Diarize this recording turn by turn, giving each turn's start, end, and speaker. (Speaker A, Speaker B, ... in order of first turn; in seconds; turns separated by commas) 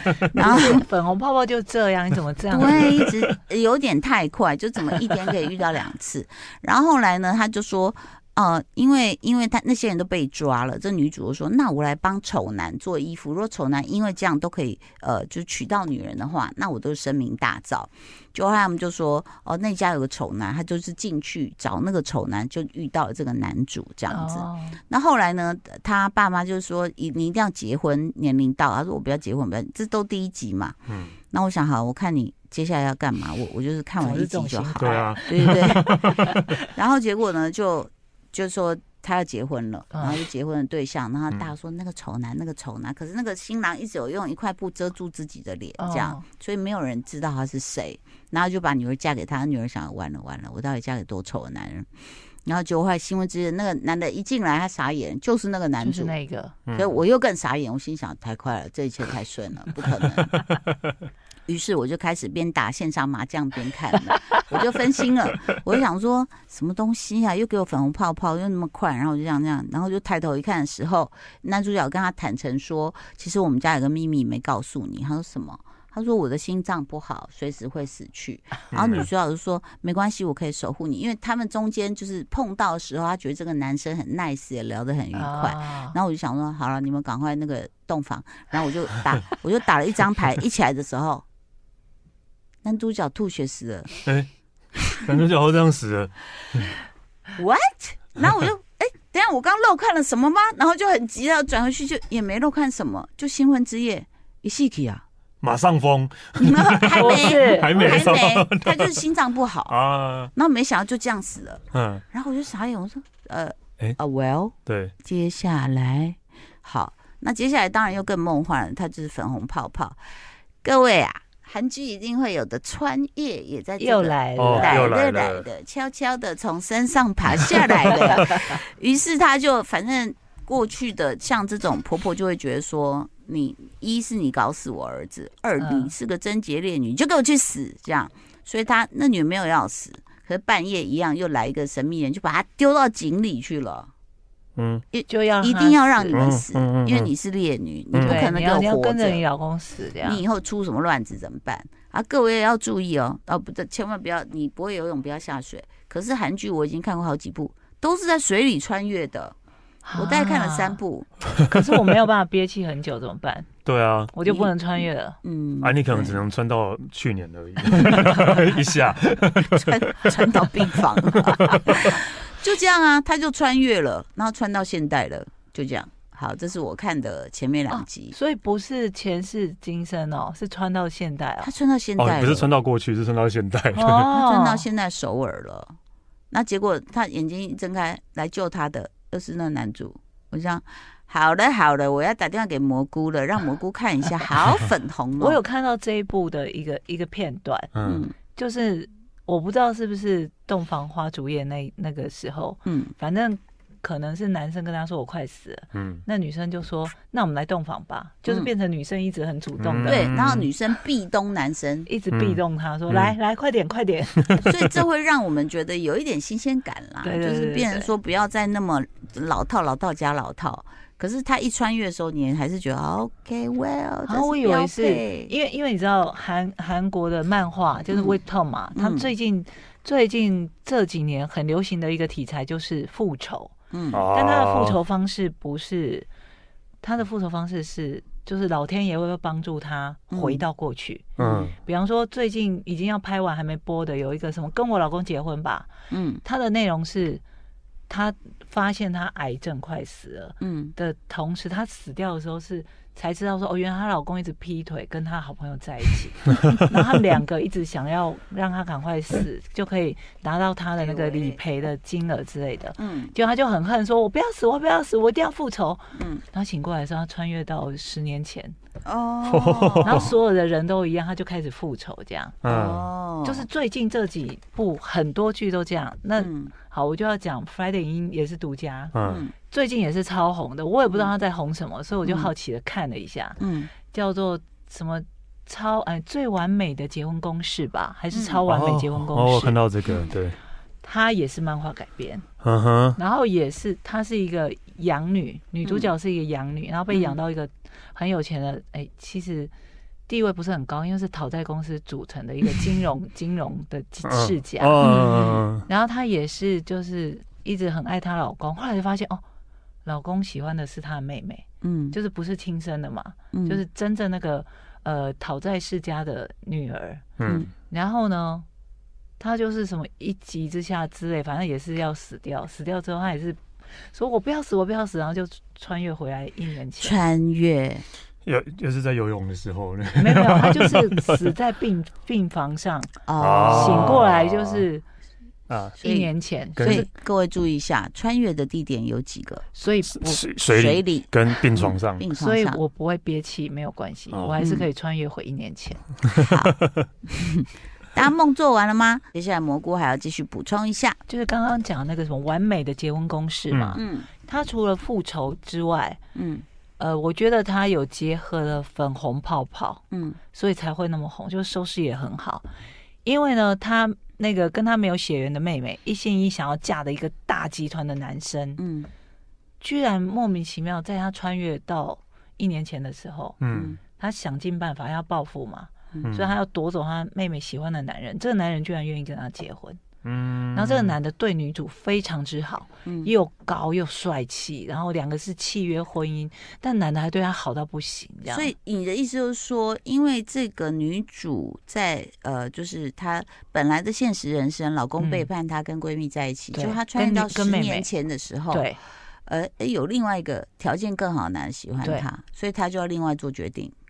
Speaker A: 0.2-3.0, Speaker B: 0.4-0.9, Speaker B: 2.5-30.8, Speaker A: 24.1-24.8, Speaker C: 30.9-31.1, Speaker B: 31.3-51.9, Speaker A: 34.0-36.6, Speaker C: 34.8-36.4, Speaker A: 39.9-40.2, Speaker A: 45.8-46.2, Speaker B: 52.5-56.1, Speaker A: 55.8-56.6, Speaker C: 56.7-56.9, Speaker B: 56.7-60.3, Speaker B: 61.5-91.2, Speaker C: 78.7-79.1, Speaker A: 85.1-86.0, Speaker B: 92.6-93.9, Speaker C: 95.0-96.7, Speaker B: 97.4-105.0, Speaker C: 105.4-109.0, Speaker B: 106.4-109.8, Speaker A: 106.9-108.2, Speaker C: 109.7-110.3, Speaker B: 110.3-120.0, Speaker C: 111.7-112.0, Speaker C: 114.7-114.9, Speaker B: 120.6-143.9, Speaker A: 123.8-124.9, Speaker C: 124.4-125.5, Speaker A: 135.6-135.9, Speaker C: 144.6-144.8, Speaker B: 144.9-149.2, Speaker A: 145.1-146.3, Speaker C: 146.1-147.1, Speaker C: 147.9-148.3, Speaker A: 148.0-150.2, Speaker B: 150.0-159.3, Speaker A: 159.8-160.8, Speaker B: 159.9-161.1, Speaker A: 161.3-163.5, Speaker C: 163.7-164.1, Speaker A: 164.1-165.2, Speaker B: 164.2-166.2, Speaker C: 165.6-172.0, Speaker A: 167.7-168.6, Speaker B: 169.4-178.2, Speaker A: 177.7-181.5, Speaker B: 181.4-182.5, Speaker C: 182.0-184.1, Speaker A: 183.7-184.7, Speaker B: 184.1-185.8, Speaker B: 186.3-195.4, Speaker A: 195.2-210.1, Speaker C: 197.8-198.1, Speaker B: 197.8-198.2, Speaker B: 202.7-202.9, Speaker C: 205.7-206.0, Speaker C: 209.6-210.5, Speaker B: 209.8-211.9, Speaker A: 211.9-214.5, Speaker C: 212.1-213.2, Speaker C: 214.2-214.7, Speaker B: 214.4-225.3, Speaker A: 217.0-217.9, Speaker A: 224.1-233.5, Speaker B: 227.9-228.2, Speaker B: 228.8-229.1, Speaker B: 233.7-234.1, Speaker C: 233.9-234.8, Speaker A: 234.1-236.1, Speaker A: 236.8-245.7, Speaker B: 240.1-240.4, Speaker B: 241.2-241.5, Speaker C: 241.2-241.6, Speaker B: 245.9-246.2, Speaker A: 246.2-247.2, Speaker A: 247.9-268.6, Speaker B: 250.4-250.8, Speaker B: 260.8-261.4, Speaker B: 262.8-263.1, Speaker B: 265.9-266.2, Speaker B: 268.9-270.1, Speaker C: 269.3-270.1, Speaker A: 269.8-272.4, Speaker C: 272.4-272.9, Speaker B: 272.4-273.5, Speaker A: 273.2-289.6, Speaker B: 276.2-276.6, Speaker C: 278.9-279.2, Speaker B: 279.0-279.4, Speaker B: 282.0-282.3, Speaker B: 283.4-283.7, Speaker B: 288.1-288.4, Speaker C: 288.4-290.4, Speaker B: 289.9-290.1, Speaker A: 290.8-292.2, Speaker C: 292.4-293.0, Speaker A: 293.0-299.5, Speaker B: 295.6-295.9, Speaker B: 296.9-297.2, Speaker A: 300.1-304.9, Speaker C: 304.1-305.7, Speaker B: 304.8-305.1, Speaker A: 305.7-309.2, Speaker A: 309.9-318.4, Speaker B: 311.6-312.0, Speaker B: 313.3-313.6, Speaker C: 317.2-317.5, Speaker B: 317.2-317.5, Speaker A: 319.2-323.4, Speaker A: 323.9-327.0, Speaker B: 326.8-327.8, Speaker C: 328.3-331.3, Speaker A: 330.0-334.8, Speaker B: 333.1-334.0, Speaker C: 333.2-334.7, Speaker C: 335.5-335.8, Speaker A: 335.8-336.9, Speaker B: 335.8-339.4, Speaker C: 336.6-336.9, Speaker A: 339.5-340.2, Speaker C: 339.9-342.0, Speaker B: 340.5-342.6, Speaker A: 342.2-346.0, Speaker B: 344.4-344.7, Speaker B: 346.1-346.6, Speaker B: 347.1-351.0, Speaker A: 351.1-356.0, Speaker C: 353.5-353.8, Speaker B: 353.8-354.1, Speaker B: 356.1-356.4, Speaker A: 356.8-362.5, Speaker B: 359.9-360.2, Speaker A: 363.1-368.6, Speaker B: 368.6-368.9, Speaker A: 369.6-379.8, Speaker C: 373.4-373.8, Speaker B: 373.5-373.8, Speaker C: 376.0-376.4, Speaker C: 380.0-381.0, Speaker A: 380.6-388.5, Speaker B: 382.9-383.1, Speaker B: 388.3-398.7, Speaker A: 395.0-395.3, Speaker A: 396.5-397.9, Speaker A: 398.5-398.8, Speaker B: 399.3-403.7, Speaker A: 401.8-402.1